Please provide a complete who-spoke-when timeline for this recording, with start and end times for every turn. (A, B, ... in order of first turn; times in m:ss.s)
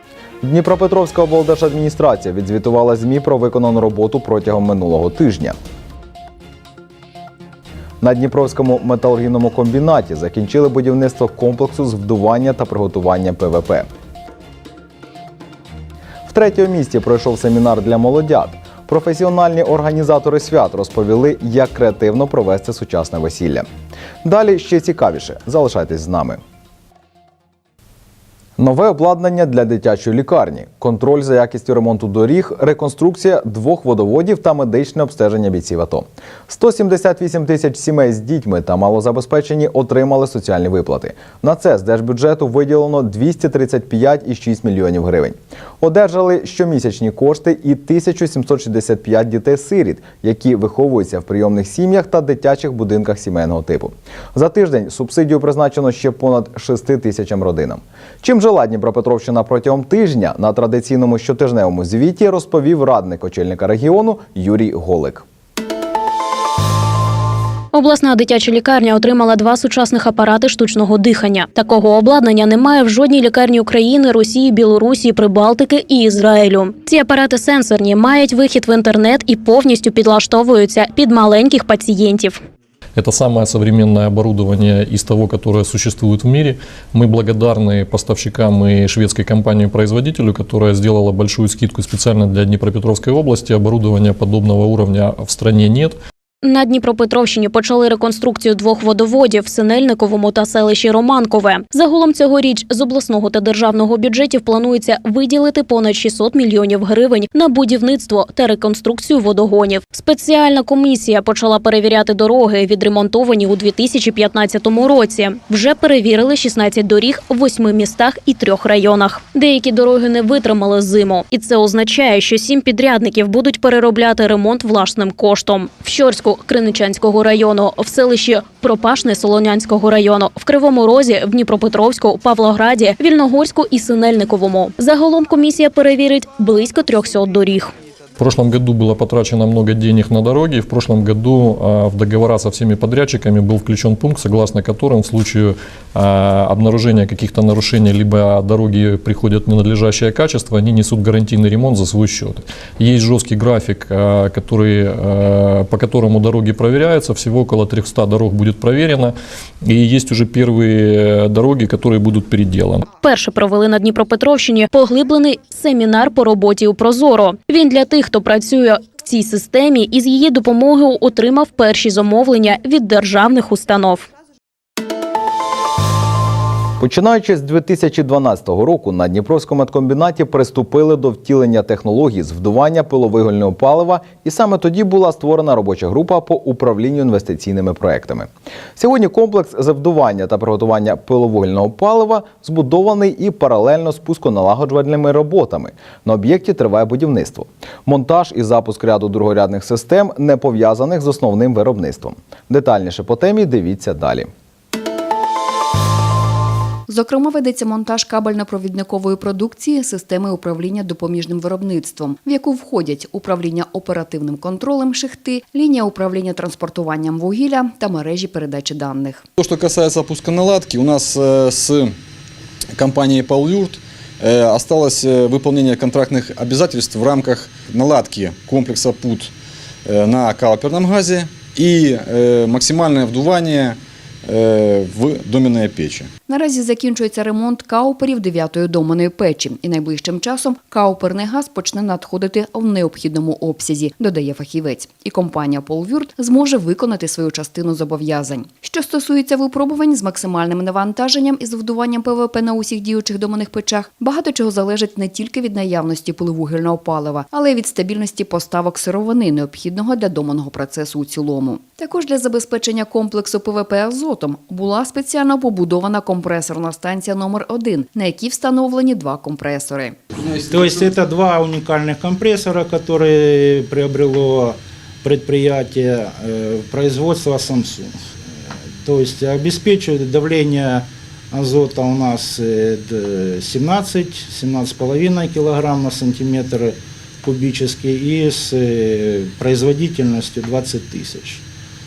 0:00.4-0:05.6 A
0:08.0-0:13.9 A
0:16.3-0:23.7 A
0:24.2-0:26.4 A
0:28.6-1:05.2 A
1:07.7-1:22.4 B
1:23.0-1:36.0 C
1:36.4-2:17.7 B
2:18.2-2:42.9 C
2:42.9-2:54.1 B
2:56.8-3:24.3 A
3:26.9-3:39.2 D
3:39.4-3:41.9 E
3:42.8-3:49.3 E
3:49.8-3:56.1 E
3:56.3-4:30.0 D
4:30.5-4:51.4 F